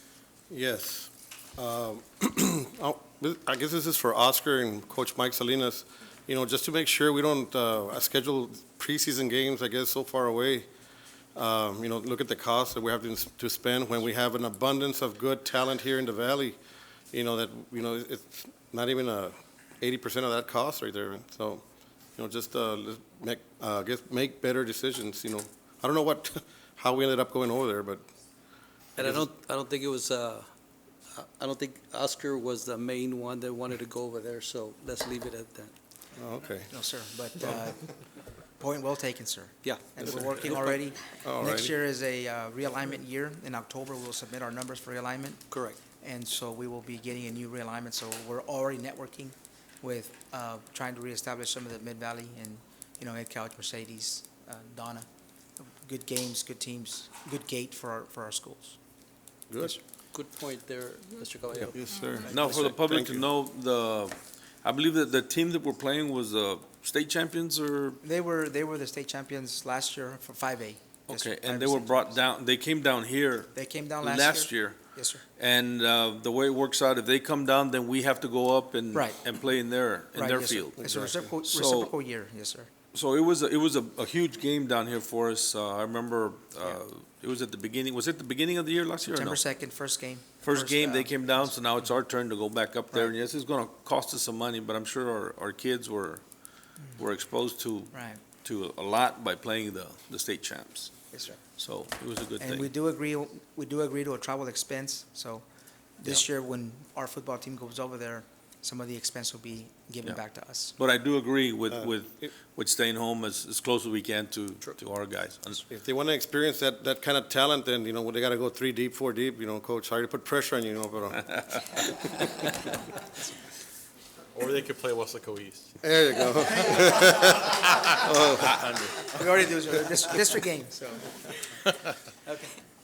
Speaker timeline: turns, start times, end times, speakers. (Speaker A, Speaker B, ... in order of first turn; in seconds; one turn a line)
Speaker A: 0.5-10.7
Speaker A: 11.3-16.6
Speaker A: 17.1-21.6
Speaker A: 22.2-28.0
Speaker B: 29.0-30.5
Speaker A: 29.0-29.3
Speaker B: 31.1-35.7
Speaker A: 36.1-36.7
Speaker C: 36.7-37.9
Speaker C: 38.6-55.1
Speaker B: 39.6-40.3
Speaker A: 40.3-41.7
Speaker B: 45.5-45.8
Speaker C: 55.6-58.8
Speaker A: 59.5-59.8
Speaker B: 59.7-61.7
Speaker A: 61.7-63.3
Speaker D: 61.8-68.0
Speaker C: 62.2-62.7
Speaker C: 68.0-72.2
Speaker D: 71.1-74.8
Speaker C: 73.5-75.2
Speaker D: 75.4-80.8
Speaker C: 78.9-79.3
Speaker C: 80.1-82.7
Speaker A: 80.8-81.3
Speaker D: 81.5-81.9
Speaker D: 82.9-89.4
Speaker C: 89.1-91.5
Speaker D: 90.4-96.2
Speaker D: 97.0-100.9
Speaker C: 97.9-98.2
Speaker C: 101.1-101.4
Speaker D: 101.6-102.7
Speaker C: 102.4-105.4
Speaker C: 106.0-110.7
Speaker D: 110.8-115.6
Speaker A: 111.7-112.3
Speaker A: 115.7-122.2
Speaker E: 124.3-125.7
Speaker A: 125.8-128.5
Speaker E: 127.5-129.2
Speaker C: 129.1-131.1
Speaker E: 131.7-131.9